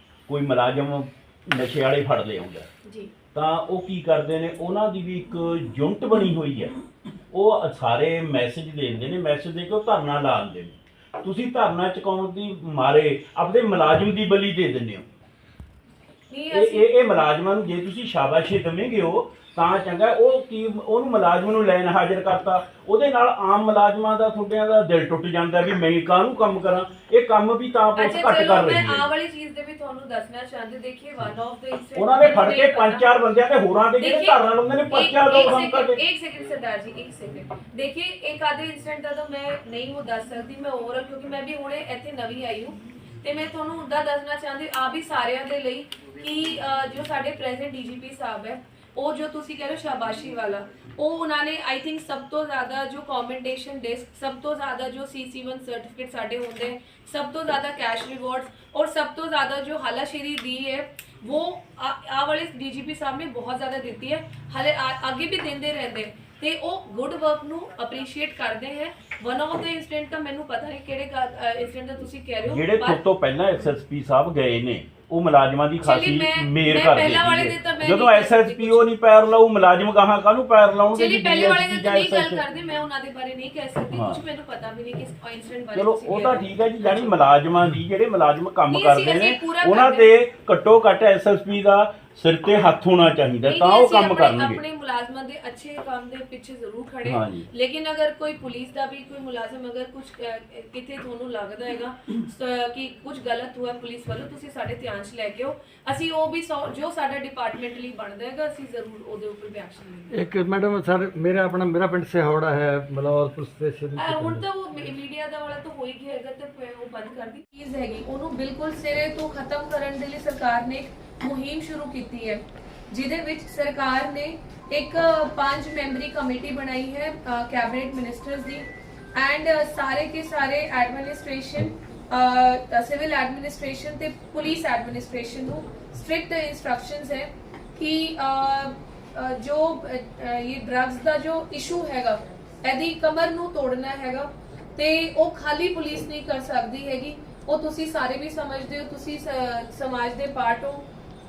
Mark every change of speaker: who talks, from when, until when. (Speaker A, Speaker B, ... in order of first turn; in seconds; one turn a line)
Speaker A: 0.3-2.7
Speaker B: 2.8-3.1
Speaker A: 3.3-6.7
Speaker A: 7.3-15.1
Speaker B: 16.3-16.9
Speaker A: 16.5-29.1
Speaker B: 28.0-33.1
Speaker A: 31.9-36.0
Speaker B: 34.0-73.0
Speaker A: 72.4-82.4
Speaker B: 75.8-78.9
Speaker B: 80.9-87.1
Speaker A: 83.9-84.2
Speaker A: 85.7-94.6
Speaker B: 88.7-90.1
Speaker B: 93.5-110.1
Speaker A: 97.0-97.5
Speaker C: 110.1-114.4
Speaker B: 114.0-150.8